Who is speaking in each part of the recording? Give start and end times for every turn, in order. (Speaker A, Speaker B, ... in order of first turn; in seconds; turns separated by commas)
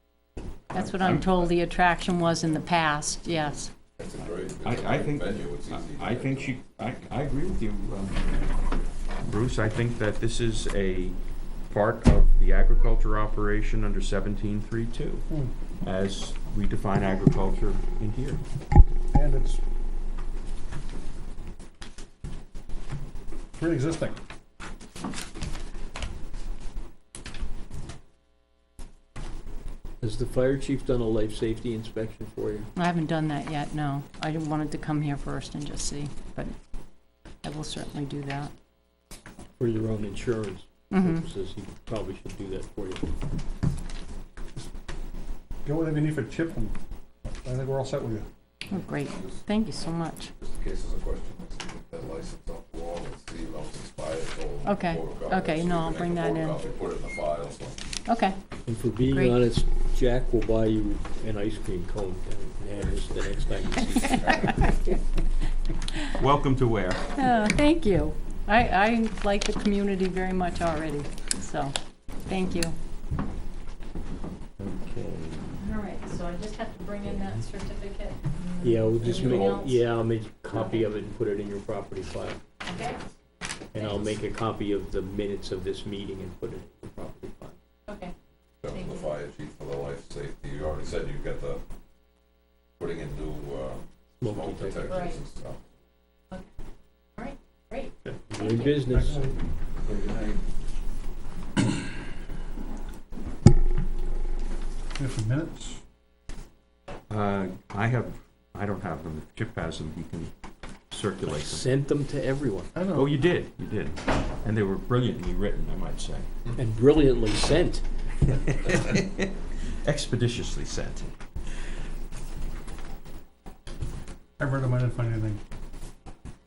Speaker A: 0.7-3.7, Speaker B: 0.8-1.3, Speaker C: 0.8-1.4, Speaker B: 4.0-6.5, Speaker C: 4.6-8.5, Speaker C: 9.2-11.2, Speaker C: 11.7-15.2, Speaker C: 15.8-18.4, Speaker D: 19.1-19.6, Speaker D: 23.6-24.2, Speaker E: 30.0-32.7, Speaker A: 32.8-36.5, Speaker A: 37.4-38.5, Speaker E: 39.6-43.1, Speaker A: 40.9-41.2, Speaker D: 45.6-46.7, Speaker D: 47.4-48.3, Speaker A: 48.7-50.3, Speaker B: 49.0-49.4, Speaker B: 50.4-57.8, Speaker A: 54.6-56.6, Speaker A: 58.1-58.4, Speaker E: 58.6-64.4, Speaker A: 59.1-59.4, Speaker A: 63.9-65.0, Speaker B: 64.0-64.5, Speaker C: 66.1-67.2, Speaker A: 67.1-71.7, Speaker A: 72.3-72.7, Speaker C: 74.6-75.6, Speaker A: 75.6-79.8, Speaker E: 78.6-82.4, Speaker B: 79.0-79.3, Speaker C: 79.3-79.6, Speaker A: 80.5-80.8, Speaker A: 82.6-83.0, Speaker E: 83.7-87.5, Speaker A: 83.7-84.2, Speaker A: 87.9-88.1, Speaker B: 88.6-91.6, Speaker A: 88.7-89.1, Speaker B: 92.8-95.6, Speaker E: 94.2-94.8, Speaker A: 94.8-95.2, Speaker A: 97.2-99.0, Speaker E: 98.1-99.2, Speaker D: 98.9-99.3, Speaker B: 99.9-100.3, Speaker D: 105.0-105.8, Speaker C: 107.1-110.3, Speaker C: 110.9-111.7, Speaker E: 111.3-112.7, Speaker D: 112.7-113.1, Speaker C: 112.9-116.3, Speaker E: 116.6-117.8, Speaker C: 118.4-121.1, Speaker D: 124.4-125.4